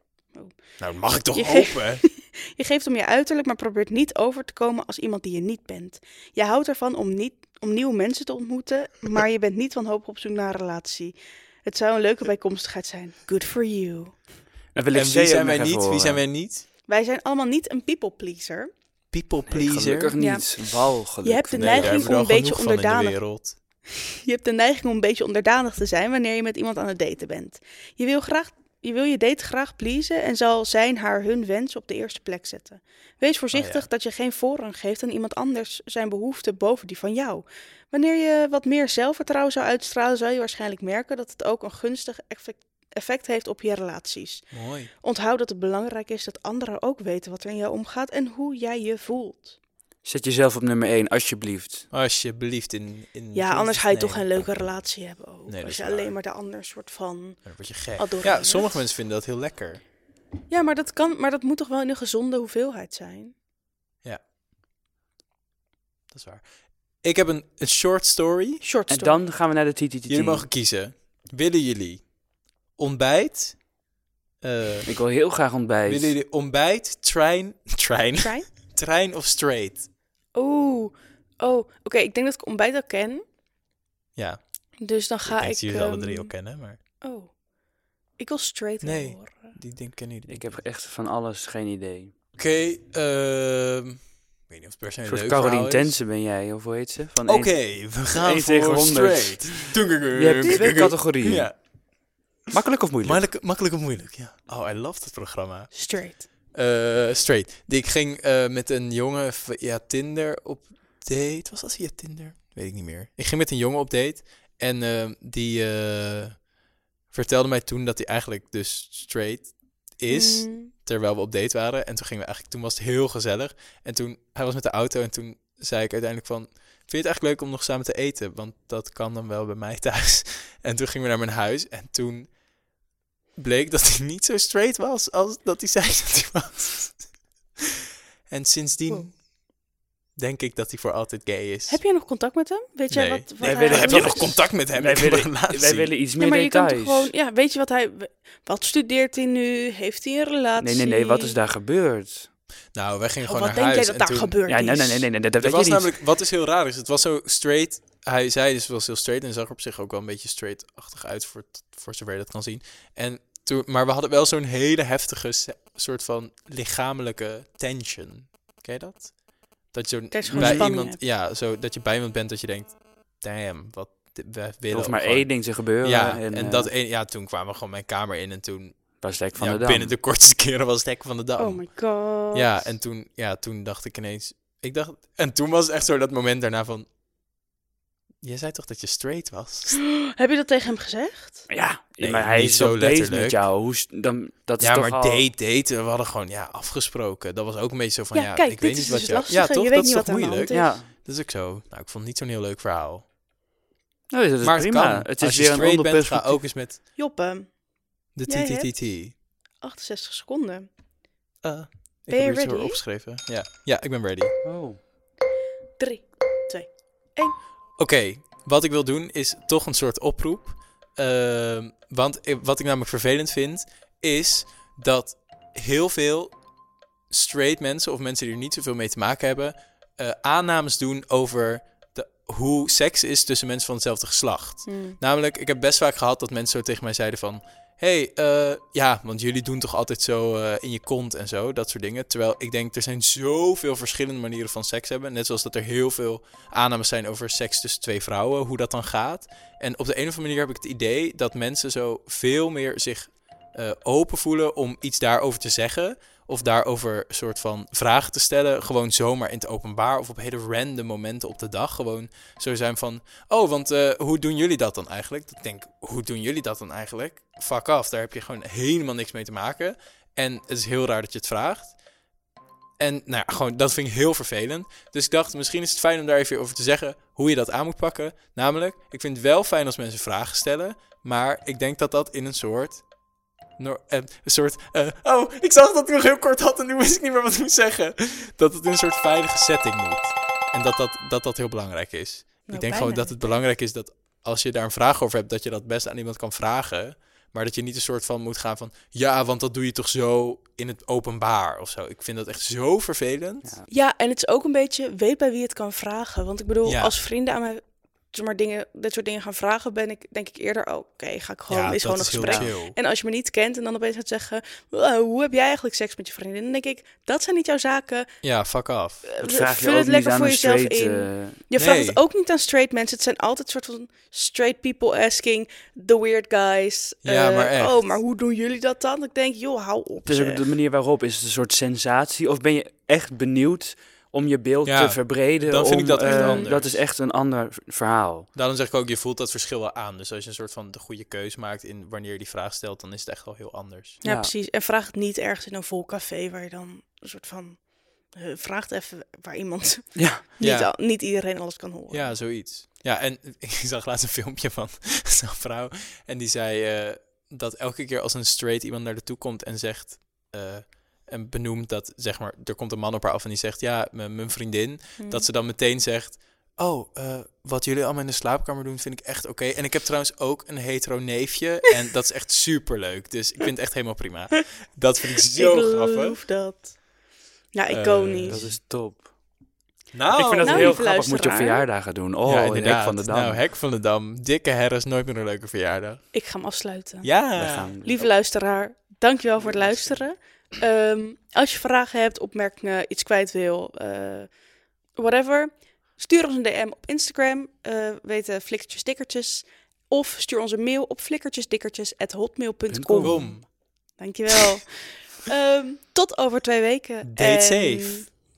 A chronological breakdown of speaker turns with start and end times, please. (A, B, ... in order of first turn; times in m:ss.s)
0:00.8-0:02.0 A
0:01.3-0:14.2 B
0:14.7-0:16.2 C
0:14.9-0:16.6 A
0:16.9-0:18.7 B
0:19.1-0:20.2 A
0:19.5-0:22.0 C
0:20.2-0:23.2 B
0:21.5-0:23.6 A
0:23.9-0:49.6 B
0:33.5-0:33.8 A
0:44.5-0:44.9 A
0:50.0-0:51.9 C
0:51.9-0:54.6 A
0:53.3-0:58.8 B
0:55.5-0:56.1 A
0:57.4-0:59.8 A
1:00.5-1:03.3 B
1:06.1-1:06.4 A
1:07.0-1:08.6 A
1:08.6-1:09.2 B
1:08.9-1:10.4 C
1:10.1-1:12.0 A
1:12.8-1:13.6 A
1:14.4-1:14.9 A
1:14.8-1:16.1 C
1:15.9-1:19.9 A
1:18.2-1:18.5 B
1:20.3-1:23.2 B
1:24.8-1:26.3 B
1:25.2-1:26.8 A
1:27.0-1:27.3 B
1:28.2-1:29.5 B
1:28.8-1:30.6 A
1:30.3-1:32.1 C
1:32.4-1:36.0 A
1:35.0-1:37.6 C
1:37.2-1:41.6 A
1:38.1-1:41.5 C
1:40.5-1:40.7 B
1:42.5-1:43.2 C
1:43.0-1:45.7 A
1:45.7-1:46.2 B
1:46.5-1:56.4 A
1:57.1-2:12.3 A
2:00.1-2:00.7 B
2:13.4-2:17.0 A
2:18.3-2:19.2 A
2:20.2-2:21.8 A
2:21.7-2:24.4 B
2:22.9-2:25.9 A
2:23.4-2:27.1 C
2:26.2-2:31.4 B
2:30.6-2:32.3 C
2:32.7-2:34.3 A
2:33.2-2:35.1 B
2:34.5-2:35.9 C
2:35.4-2:49.2 A
2:49.7-3:01.7 A
2:50.1-2:51.0 B
2:50.3-2:50.7 C
2:54.7-2:56.7 C
2:59.0-2:59.9 C
3:01.4-3:02.6 B
3:02.3-3:06.9 A
3:08.2-3:09.8 A
3:09.7-3:11.5 B
3:11.5-3:15.2 C
3:12.0-3:13.4 A
3:14.6-3:23.0 A
3:18.1-3:20.7 B
3:20.5-3:20.9 C
3:24.1-3:26.4 C
3:24.4-3:26.8 A
3:27.0-3:27.5 B
3:28.1-3:29.1 A
3:28.3-3:28.7 B
3:29.6-3:30.7 B
3:31.4-3:34.3 A
3:32.1-3:32.8 B
3:34.4-3:34.8 C
3:35.8-3:37.4 B
3:37.8-3:46.3 A
3:47.1-4:31.8 A
3:54.6-3:55.0 B
4:32.8-4:42.8 A
4:43.6-5:03.5 A
4:52.5-4:53.2 B
5:03.7-5:18.1 B
5:06.6-5:06.9 A
5:11.5-5:12.8 A
5:12.1-5:12.5 C
5:18.2-5:19.1 A
5:19.1-5:30.5 B
5:19.2-5:21.4 C
5:21.5-5:22.0 A
5:27.0-5:27.8 A
5:30.0-5:38.3 C
5:34.6-5:36.8 A
5:36.0-5:36.5 B
5:38.3-5:44.0 A
5:44.0-5:47.6 B
5:44.0-5:44.3 C
5:48.1-5:52.1 B
5:50.0-5:50.2 C
5:50.4-5:50.7 A
5:51.9-6:16.2 A
6:05.0-6:05.3 B
6:15.3-6:16.8 B
6:17.5-6:18.4 B
6:17.7-6:18.6 A
6:18.3-6:19.1 C
6:19.9-6:20.8 A
6:20.1-6:23.4 C
6:20.4-6:21.6 B
6:22.2-6:26.0 A
6:26.1-6:27.1 B
6:27.0-6:27.7 A
6:27.4-6:28.1 C
6:27.8-6:34.3 B
6:29.4-6:30.0 C
6:35.0-6:43.3 B
6:42.7-6:43.3 C
6:43.0-6:43.4 A
6:44.0-6:48.1 B
6:47.0-6:48.0 A